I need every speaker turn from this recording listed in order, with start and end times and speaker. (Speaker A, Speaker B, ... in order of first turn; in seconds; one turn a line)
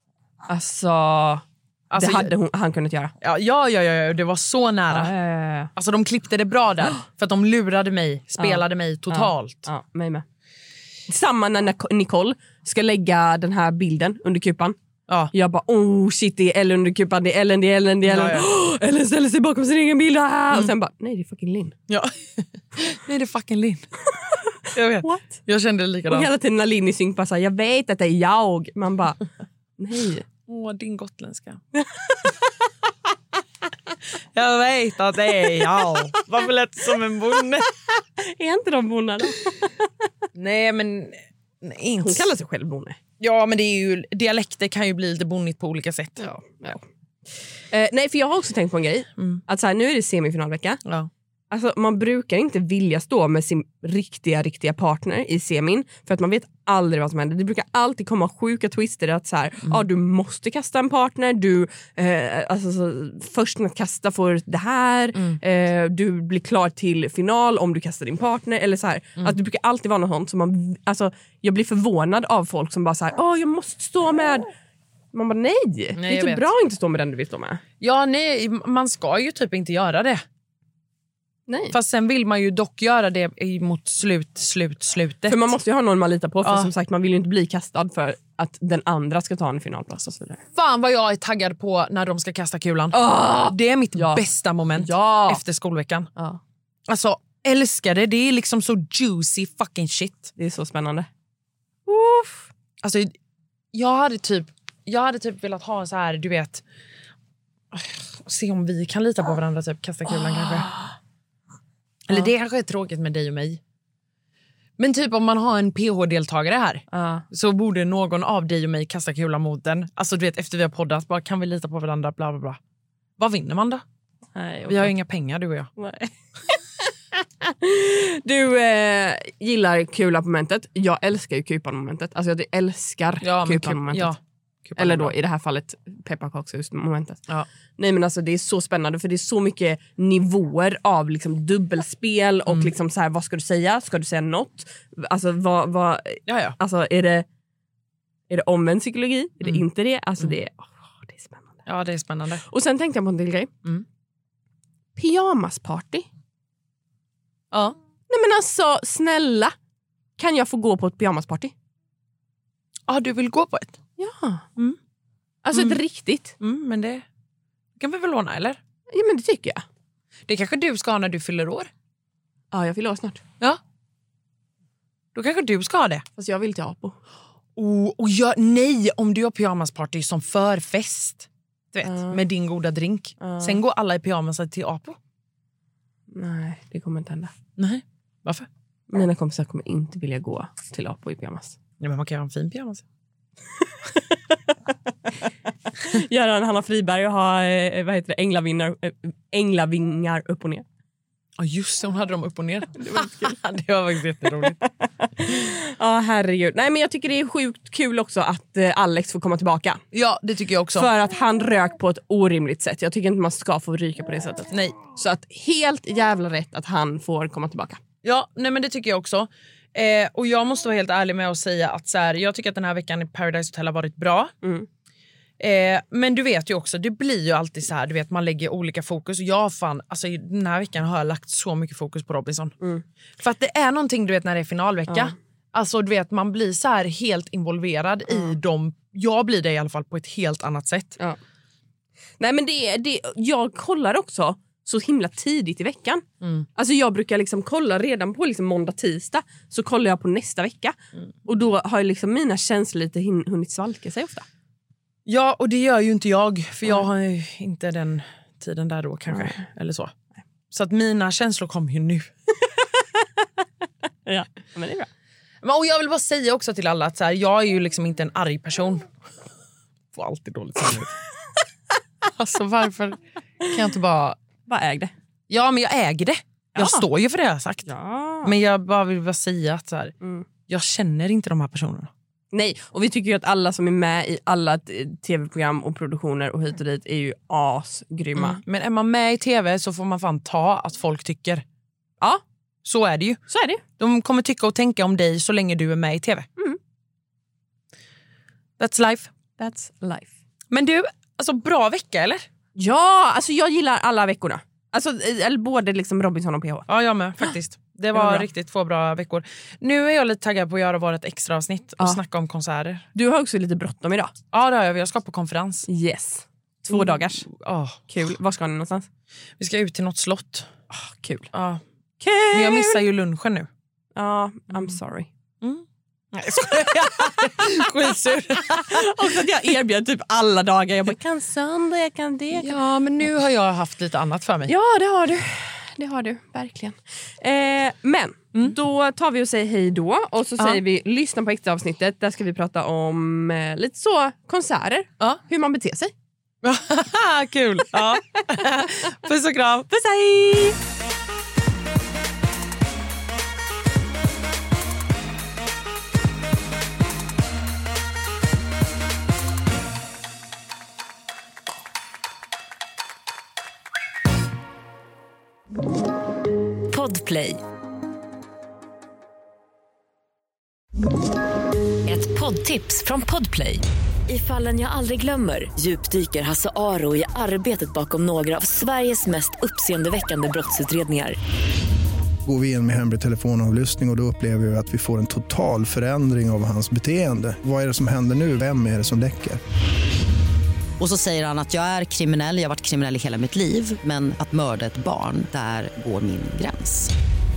Speaker A: 0.5-1.4
Speaker B: 1.9-2.3
Speaker A: 1.9-3.1
Speaker B: 3.2-5.1
Speaker A: 4.9-5.7
Speaker B: 5.8-9.7
Speaker A: 8.4-10.2
Speaker A: 11.1-14.8
Speaker B: 15.1-15.3
Speaker A: 15.3-21.8
Speaker B: 18.1-18.4
Speaker B: 21.9-23.9
Speaker A: 24.2-25.4
Speaker B: 24.6-26.3
Speaker A: 26.1-29.2
Speaker A: 29.8-30.2
Speaker B: 30.5-31.6
Speaker A: 31.7-32.5
Speaker B: 34.3-37.7
Speaker A: 38.2-39.9
Speaker B: 40.4-42.3
Speaker A: 42.0-43.0
Speaker B: 43.2-46.2
Speaker A: 46.2-46.8
Speaker A: 47.7-50.8
Speaker B: 50.9-51.1
Speaker A: 51.5-74.5
Speaker A: 75.1-77.6
Speaker B: 76.0-76.5
Speaker B: 77.8-80.2
Speaker A: 81.5-81.8
Speaker B: 81.7-85.5
Speaker A: 85.3-90.4
Speaker B: 86.4-86.7
Speaker B: 90.5-96.1
Speaker A: 92.9-95.4
Speaker B: 96.9-100.3
Speaker A: 100.4-101.1
Speaker A: 101.9-102.5
Speaker B: 102.8-103.1
Speaker B: 103.7-106.6
Speaker B: 107.7-110.7
Speaker A: 110.3-110.9
Speaker B: 112.1-113.6
Speaker B: 114.8-122.6
Speaker A: 116.9-117.2
Speaker B: 123.2-123.8
Speaker A: 124.3-124.9
Speaker B: 124.7-125.7
Speaker A: 125.8-126.6
Speaker A: 127.1-134.1
Speaker B: 133.2-135.1
Speaker A: 134.8-147.3
Speaker B: 146.3-146.6
Speaker A: 148.3-151.6
Speaker B: 151.7-152.4
Speaker A: 152.5-153.5
Speaker A: 155.0-156.1
Speaker A: 158.1-159.5
Speaker A: 160.2-161.5
Speaker B: 162.9-163.8
Speaker A: 164.0-164.5
Speaker A: 165.4-166.3
Speaker B: 165.5-165.8
Speaker B: 166.4-167.0
Speaker B: 167.8-168.6
Speaker A: 168.9-169.6
Speaker B: 170.3-171.7
Speaker A: 172.5-173.2
Speaker B: 175.2-176.1
Speaker A: 176.2-177.0
Speaker B: 177.6-185.0
Speaker A: 181.8-182.2
Speaker A: 183.2-183.6
Speaker A: 186.1-187.3
Speaker B: 187.6-188.5
Speaker A: 188.9-191.6
Speaker B: 191.8-192.8
Speaker A: 193.6-194.4
Speaker A: 195.8-200.7
Speaker B: 201.4-204.6
Speaker A: 202.8-203.4
Speaker A: 204.4-209.8
Speaker B: 209.9-210.9
Speaker A: 210.8-217.8
Speaker B: 214.5-214.8
Speaker B: 218.0-224.3
Speaker A: 224.4-224.7
Speaker B: 225.4-232.6
Speaker B: 233.2-241.0
Speaker A: 234.9-235.1
Speaker A: 242.2-246.0
Speaker A: 246.6-254.3
Speaker B: 255.1-259.9
Speaker B: 260.5-262.1
Speaker A: 262.6-263.3
Speaker A: 264.1-264.9
Speaker B: 265.4-268.9
Speaker B: 269.9-270.9
Speaker B: 272.0-274.2
Speaker A: 274.5-274.9
Speaker B: 275.3-277.7
Speaker A: 276.6-276.9
Speaker A: 277.7-278.3
Speaker B: 278.2-279.9
Speaker A: 280.0-280.3
Speaker B: 280.5-281.9
Speaker A: 282.3-288.4
Speaker B: 288.2-291.4
Speaker B: 292.6-293.2
Speaker A: 293.3-293.6
Speaker B: 293.8-296.3
Speaker B: 298.6-299.1
Speaker A: 299.4-300.1
Speaker B: 300.5-302.2
Speaker A: 302.6-306.7
Speaker B: 306.7-312.9
Speaker A: 307.9-308.3
Speaker A: 312.9-314.1
Speaker B: 314.3-315.7
Speaker A: 315.7-317.3
Speaker B: 316.7-317.8
Speaker A: 317.9-318.9
Speaker B: 319.4-320.5
Speaker A: 320.7-321.3
Speaker B: 321.3-321.6
Speaker A: 322.0-322.8
Speaker B: 322.3-323.5
Speaker A: 323.9-325.1
Speaker B: 325.4-328.9
Speaker A: 327.0-327.6
Speaker A: 328.6-332.6
Speaker B: 332.4-334.5
Speaker A: 334.5-345.9
Speaker B: 346.4-349.7
Speaker A: 347.8-348.7
Speaker A: 349.7-350.6
Speaker C: 366.7-367.4
Speaker C: 371.9-381.2
Speaker D: 382.2-389.4
Speaker E: 390.8-396.9